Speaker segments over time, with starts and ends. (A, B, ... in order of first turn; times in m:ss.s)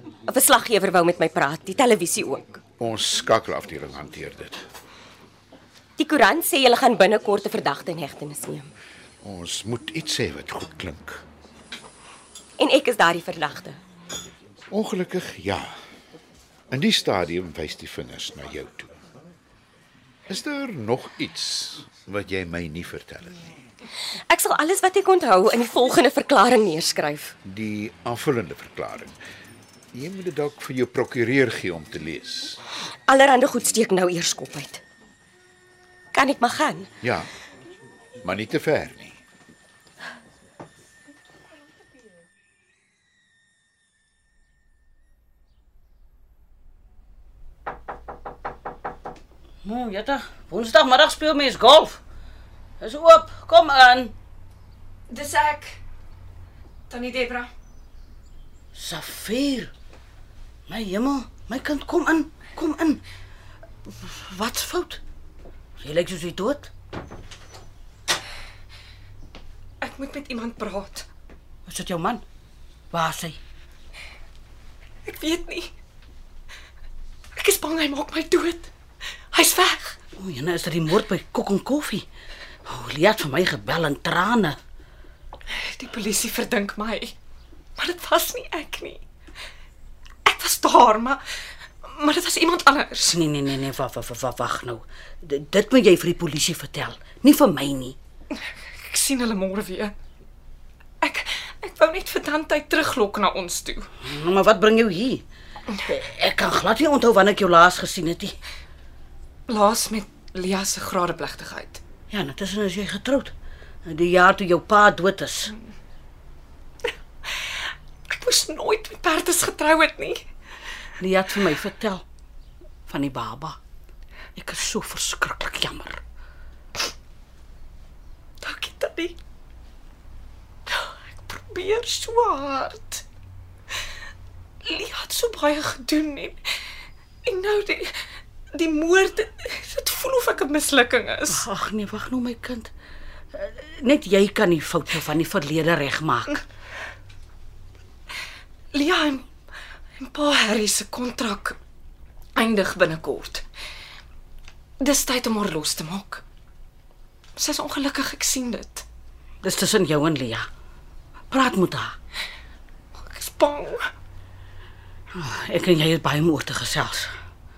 0:00.3-0:02.6 A
0:02.8-0:04.6 B
0:06.0-0:08.7 A
0:09.2-0:11.2 B
0:12.6-0:13.8 A
0:14.7-0:15.7 B
0:16.7-0:19.0 B
0:20.3-0:23.5 B
0:24.3-0:27.3 A
0:27.4-0:29.2 B
0:29.9-0:32.6 B
0:33.1-0:34.8 A
0:36.1-0:36.9 A
0:37.0-0:37.3 B
0:38.2-0:39.2 B
0:49.6-0:52.0 C
0:52.8-0:54.1 C
0:55.1-0:55.7 D
0:56.9-0:57.5 D
0:58.7-0:59.7 C
1:00.7-1:03.0 C
1:04.0-1:05.0 C
1:05.8-1:06.7 C
1:09.8-1:11.1 D
1:11.6-1:12.2 C
1:12.9-1:13.4 C
1:15.0-1:15.7 D
1:17.4-1:18.7 D
1:19.3-1:20.0 D
1:20.2-1:22.0 C
1:22.6-1:24.6 C
1:25.6-1:27.1 D
1:27.8-1:29.0 D
1:30.2-1:31.2 D
1:31.8-1:33.2 D
1:33.0-1:38.0 C
1:38.8-1:39.9 D
1:41.0-1:43.9 D
1:44.0-1:45.2 C
1:45.9-1:48.4 C
1:49.5-1:51.8 D
1:52.1-1:53.3 C
1:53.8-1:55.5 C
1:58.1-2:00.2 D
2:01.0-2:02.0 C
2:02.9-2:03.6 C
2:04.4-2:06.0 C
2:08.4-2:09.2 D
2:10.7-2:13.0 D
2:14.6-2:16.4 D
2:17.2-2:17.9 D
2:18.5-2:21.4 D
2:21.3-2:22.7 C
2:23.3-2:26.4 C
2:28.7-2:29.3 D
2:30.0-2:31.6 D
2:32.3-2:33.4 D
2:34.8-2:36.2 D
2:37.4-2:38.8 D
2:39.4-2:40.5 C
2:41.3-2:41.9 C
2:43.0-2:43.9 D
2:45.1-2:47.1 C